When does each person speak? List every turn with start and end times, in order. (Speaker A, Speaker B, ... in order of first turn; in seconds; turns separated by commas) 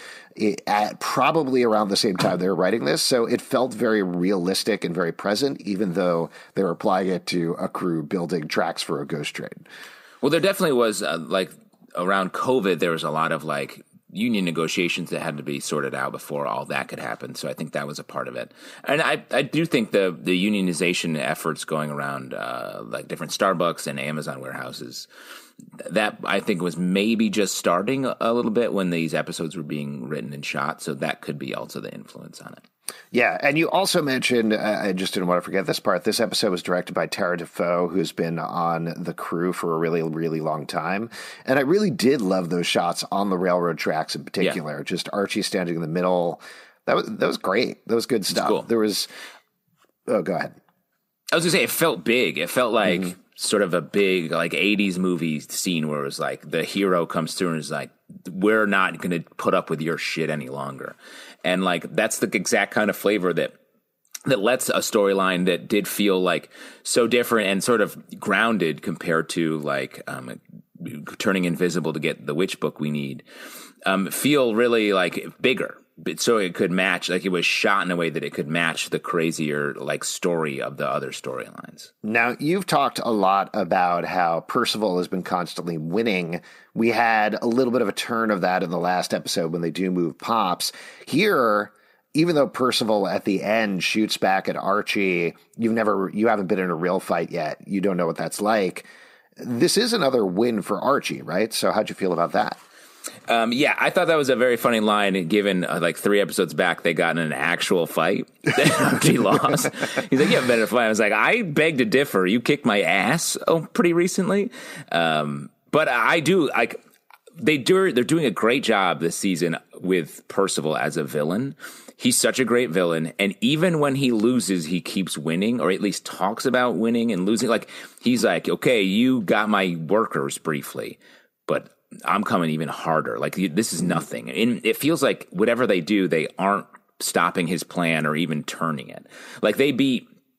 Speaker A: 0.4-9.7, Speaker B: 10.2-25.1, Speaker B: 25.8-32.6, Speaker A: 33.1-49.1, Speaker B: 48.3-48.6, Speaker A: 50.1-50.6, Speaker B: 51.3-63.5, Speaker B: 64.3-73.2, Speaker B: 73.8-81.9, Speaker A: 82.0-102.6, Speaker B: 103.3-116.8, Speaker B: 117.4-140.1